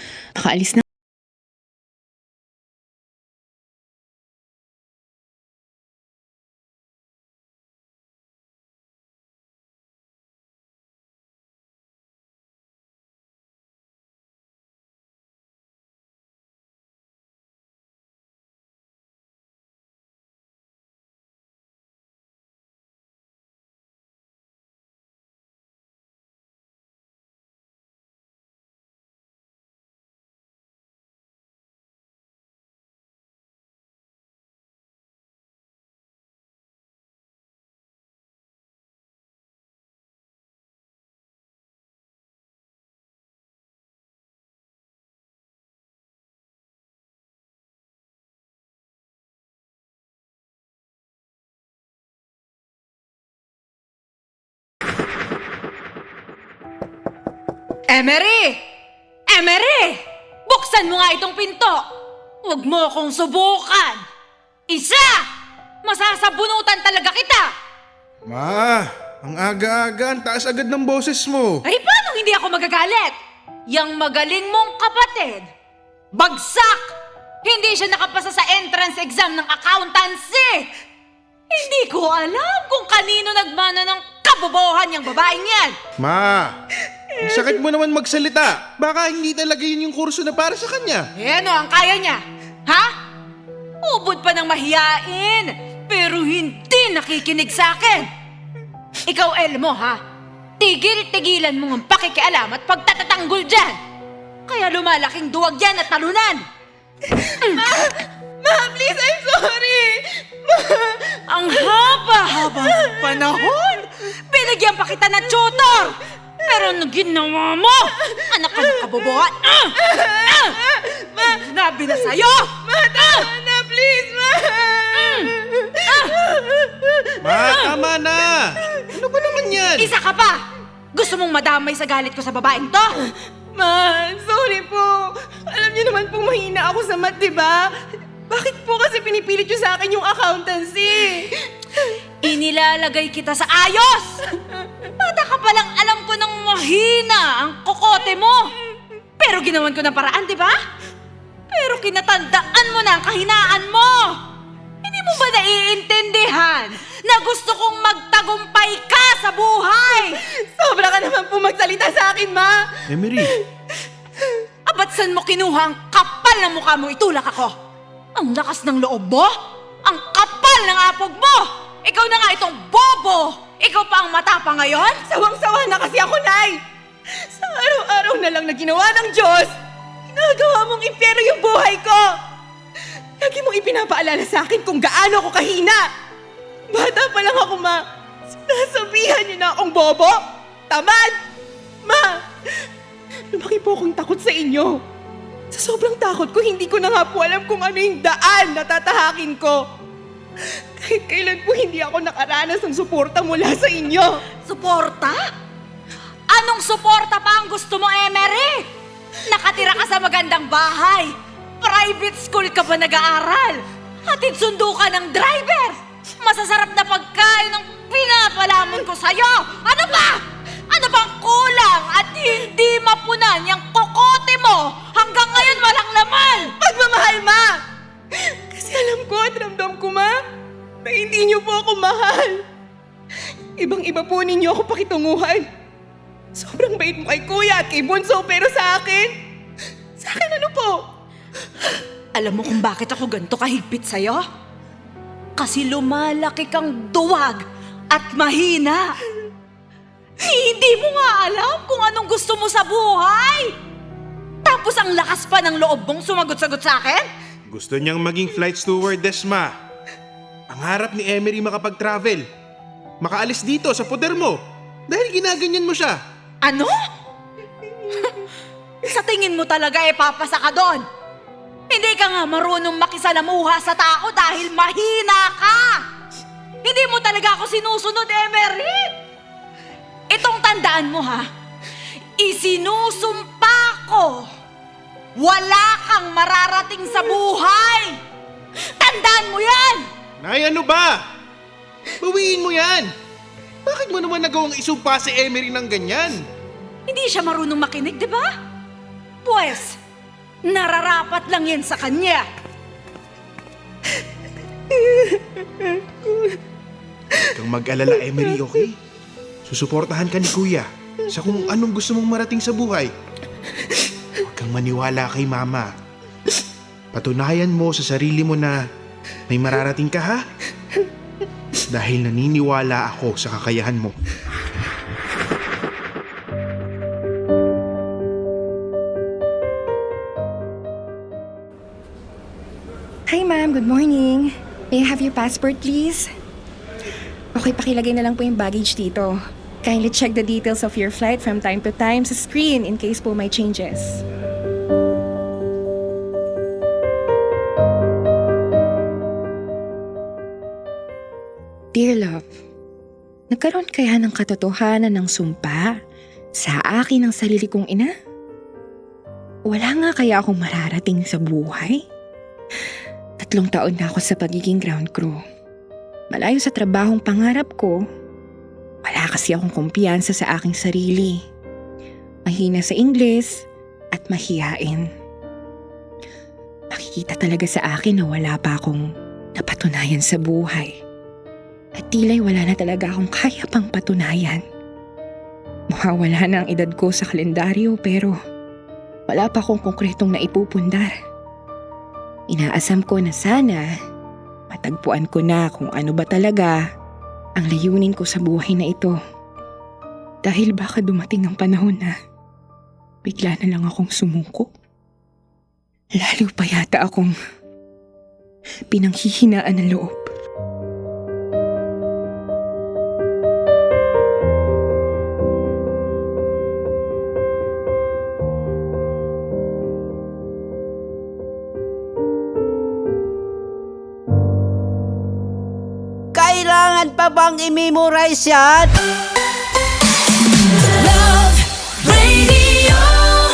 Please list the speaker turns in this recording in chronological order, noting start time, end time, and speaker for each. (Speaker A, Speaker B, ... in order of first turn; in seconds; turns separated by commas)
Speaker A: 0.4-0.8, Speaker B: 57.9-58.6, Speaker B: 59.3-61.9, Speaker B: 62.4-64.0, Speaker B: 64.7-65.3, Speaker B: 65.8-67.5, Speaker C: 68.2-71.6, Speaker B: 71.6-73.2, Speaker B: 73.7-75.5, Speaker B: 76.1-80.7, Speaker B: 81.5-85.8, Speaker C: 86.0-86.5, Speaker C: 87.2-91.1, Speaker B: 91.2-92.9, Speaker B: 93.8-98.1, Speaker B: 99.1-100.0, Speaker B: 100.6-103.8, Speaker B: 104.4-106.4, Speaker B: 107.3-107.7, Speaker D: 107.6-111.2, Speaker B: 111.3-120.6, Speaker D: 112.7-113.0, Speaker D: 119.8-121.3, Speaker B: 121.2-123.3, Speaker D: 122.6-127.6, Speaker B: 125.0-126.2, Speaker C: 127.2-129.9, Speaker B: 127.4-127.7, Speaker B: 129.7-130.4, Speaker B: 130.9-133.1, Speaker D: 133.5-137.7, Speaker D: 138.3-141.3, Speaker B: 142.2-144.2, Speaker B: 144.9-148.5, Speaker B: 149.2-150.6, Speaker B: 151.5-154.2, Speaker B: 154.8-160.2, Speaker D: 160.1-163.4, Speaker C: 162.9-163.3, Speaker B: 164.7-167.5, Speaker B: 168.1-169.3, Speaker B: 169.8-175.0, Speaker D: 175.0-176.6, Speaker D: 177.3-179.5, Speaker D: 180.1-182.2, Speaker D: 183.2-185.9, Speaker D: 186.7-191.2, Speaker D: 191.8-192.2, Speaker D: 193.3-194.8, Speaker D: 195.5-199.6, Speaker D: 200.8-204.2, Speaker B: 204.4-205.3, Speaker B: 206.3-208.7, Speaker B: 209.2-226.5, Speaker D: 226.6-227.6, Speaker D: 228.2-230.2, Speaker D: 230.8-232.4, Speaker D: 233.6-235.4, Speaker D: 236.3-239.1, Speaker D: 240.0-240.8, Speaker B: 242.1-244.2, Speaker B: 245.3-249.0, Speaker B: 250.2-253.5, Speaker B: 254.4-257.1, Speaker C: 257.5-259.6, Speaker C: 260.5-262.3, Speaker C: 263.0-266.0, Speaker B: 266.4-266.8, Speaker B: 267.9-268.2, Speaker B: 268.8-270.8, Speaker B: 271.7-275.8, Speaker B: 276.6-278.9, Speaker B: 280.1-281.3, Speaker B: 282.2-284.3, Speaker B: 285.1-288.0, Speaker B: 288.6-289.9, Speaker C: 290.2-291.0, Speaker C: 292.0-292.9, Speaker C: 293.6-296.2, Speaker B: 296.9-298.3, Speaker B: 299.2-299.8, Speaker B: 300.4-302.2, Speaker D: 304.8-305.2, Speaker C: 307.2-308.8, Speaker C: 309.4-312.9, Speaker C: 314.2-315.7, Speaker C: 316.9-318.6, Speaker C: 319.3-320.2, Speaker C: 321.7-323.9, Speaker A: 333.1-336.1, Speaker A: 337.3-344.0, Speaker A: 351.7-352.2, Speaker A: 353.3-355.7, Speaker A: 356.4-357.9, Speaker A: 359.5-361.8, Speaker A: 363.2-365.2, Speaker A: 366.1-367.8, Speaker A: 368.8-371.2, Speaker A: 372.2-374.9, Speaker A: 376.7-378.8, Speaker A: 379.4-380.8, Speaker A: 381.8-384.4, Speaker A: 385.7-388.2, Speaker A: 389.1-390.9, Speaker A: 392.3-393.7, Speaker A: 394.5-396.6, Speaker A: 397.4-398.9, Speaker A: 400.2-401.9, Speaker A: 403.0-404.5, Speaker A: 405.9-407.1, Speaker A: 408.7-410.1, Speaker E: 426.1-428.7, Speaker B: 430.9-431.3, Speaker B: 431.9-432.8